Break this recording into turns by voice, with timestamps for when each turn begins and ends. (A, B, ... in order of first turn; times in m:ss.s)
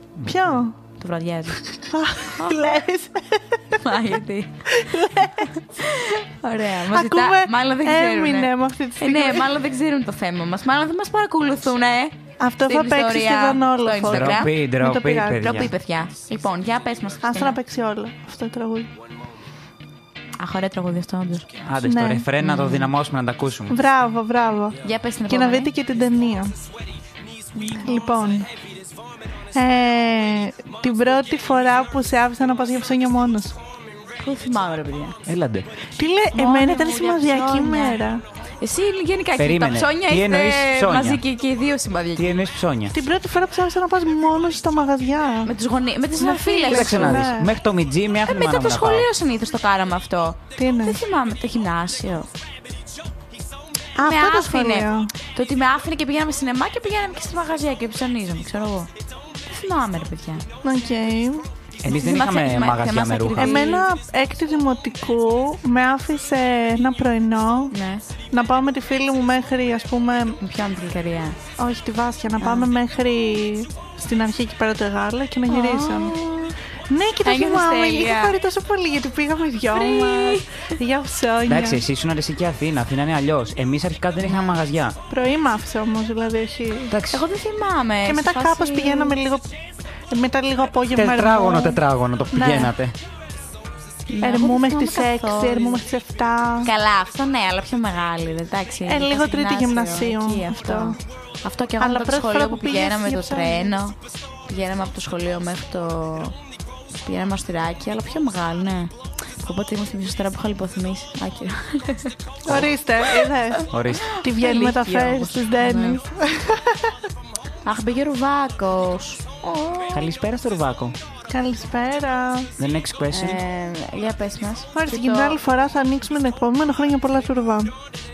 0:00.2-0:00.6 A
0:00.2-0:00.8 B
0:01.0-0:01.6 C
0:01.8-0:03.8 B
0:02.4-0:02.7 C
0:03.8-0:04.6 C
0:04.7-0:05.5 B
0:05.8-0:14.6 C
0:06.9-0:09.5 B
0:12.4-0:15.7 B
0:14.1-0:15.7 A
0:15.4-0:17.6 C
0:17.2-0:18.9 B
0:20.4-0:21.5 C
0:21.6-0:23.8 A
0:21.8-0:22.3 B
0:22.4-0:22.9 C
0:23.7-0:26.5 B
0:24.8-0:25.7 C
0:27.5-0:27.9 C
0:27.7-0:28.5 B
0:29.5-0:33.6 B
0:34.2-0:35.2 C
0:35.2-0:35.7 A
0:36.0-0:38.2 B
0:36.3-0:38.0 C
0:38.6-0:42.3 C
0:39.4-0:41.2 A
0:42.2-0:43.0 A
0:42.9-0:45.5 B
0:45.4-0:47.2 C
0:46.2-0:47.5 B
0:46.7-0:49.1 A
0:48.2-0:52.3 C
0:50.6-0:51.0 B
0:54.0-0:55.1 B
0:54.0-0:58.9 C
0:59.5-1:00.4 C
1:00.6-1:01.4 B
1:01.8-1:03.6 A
1:01.8-1:03.9 C
1:03.4-1:07.7 B
1:07.7-1:08.0 C
1:08.3-1:10.4 B
1:10.4-1:11.4 C
1:11.6-1:16.2 B
1:12.4-1:12.7 C
1:15.5-1:16.5 C
1:16.9-1:21.8 B
1:17.2-1:18.3 C
1:19.7-1:20.4 C
1:21.4-1:25.0 A
1:24.2-1:24.6 C
1:25.1-1:26.9 B
1:26.9-1:27.2 A
1:27.1-1:29.2 C
1:28.0-1:29.5 B
1:30.1-1:31.8 B
1:30.9-1:33.0 A
1:32.3-1:32.7 B
1:34.1-1:35.8 C
1:34.2-1:36.7 B
1:36.6-1:46.3 C
1:38.8-1:41.0 B
1:41.8-1:43.7 B
1:47.0-1:52.2 C
1:52.4-1:56.9 B
1:53.2-1:56.0 C
1:53.7-1:54.1 A
1:57.6-2:00.1 C
1:59.9-2:01.0 A
2:01.3-2:02.5 B
2:02.6-2:03.4 A
2:03.1-2:05.4 C
2:04.7-2:07.7 B